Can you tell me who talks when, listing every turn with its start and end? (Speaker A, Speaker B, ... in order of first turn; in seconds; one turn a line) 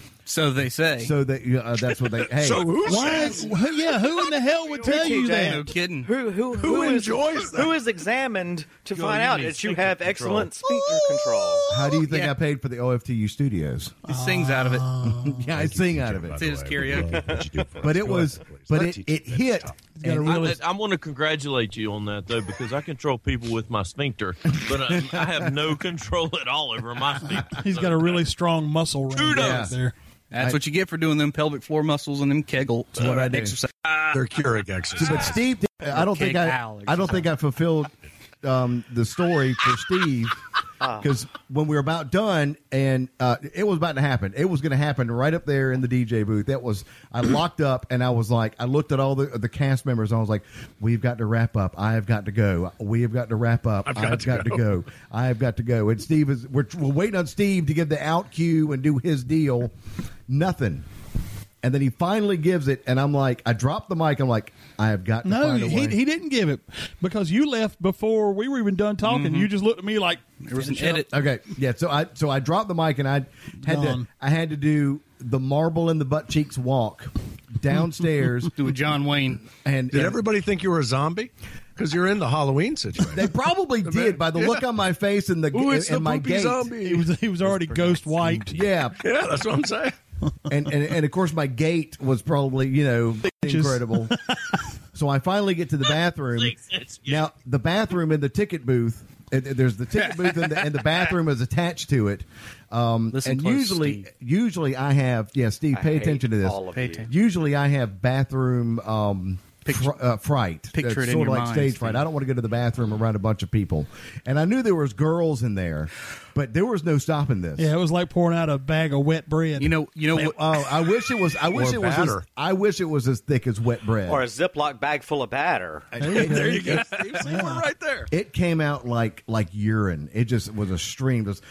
Speaker A: 0.3-1.1
Speaker B: 1.0-3.2
Speaker C: 2.2-3.5
Speaker D: 2.8-5.7
Speaker E: 3.2-3.5
Speaker E: 4.8-11.7
Speaker A: 4.9-6.1
Speaker C: 6.5-7.8
Speaker C: 9.0-9.7
Speaker A: 9.0-10.4
Speaker B: 11.7-14.0
Speaker A: 11.9-12.3
Speaker A: 14.1-14.9
Speaker D: 14.1-15.5
Speaker B: 15.0-16.4
Speaker C: 15.5-19.8
Speaker A: 16.4-17.3
Speaker E: 17.2-17.5
Speaker B: 17.8-20.6
Speaker D: 20.0-20.5
Speaker F: 20.2-28.2
Speaker B: 24.9-25.2
Speaker D: 27.4-29.9
Speaker F: 29.1-29.7
Speaker B: 29.3-29.8
Speaker A: 30.3-33.7
Speaker B: 33.0-33.5
Speaker C: 34.0-35.4
Speaker B: 35.0-37.9
Speaker A: 35.9-37.3
Speaker B: 38.4-40.4
Speaker E: 40.8-41.1
Speaker B: 41.0-59.7
Speaker C: 53.9-54.7
Speaker B: 60.3-60.9
Speaker B: 61.6-66.0
Speaker D: 65.2-71.1
Speaker A: 69.0-69.5
Speaker A: 70.4-71.1
Speaker B: 71.1-78.5
Speaker D: 73.6-74.0
Speaker A: 78.6-79.5
Speaker B: 79.6-80.2
Speaker C: 79.9-83.3
Speaker B: 83.1-86.7
Speaker C: 83.8-84.6
Speaker C: 85.5-90.0
Speaker D: 86.8-88.6
Speaker B: 88.5-89.0
Speaker B: 90.5-94.2
Speaker D: 93.3-94.6
Speaker B: 94.9-117.7
Speaker F: 96.3-97.3
Speaker A: 103.1-104.1
Speaker E: 105.7-107.1
Speaker A: 106.7-107.1
Speaker A: 109.7-110.0
Speaker A: 110.7-112.0
Speaker D: 117.6-119.8
Speaker A: 119.6-120.4
Speaker B: 120.2-124.2
Speaker C: 121.5-122.2
Speaker E: 124.1-126.0
Speaker B: 126.0-126.8
Speaker D: 126.0-127.7
Speaker C: 126.1-128.1
Speaker B: 128.1-131.4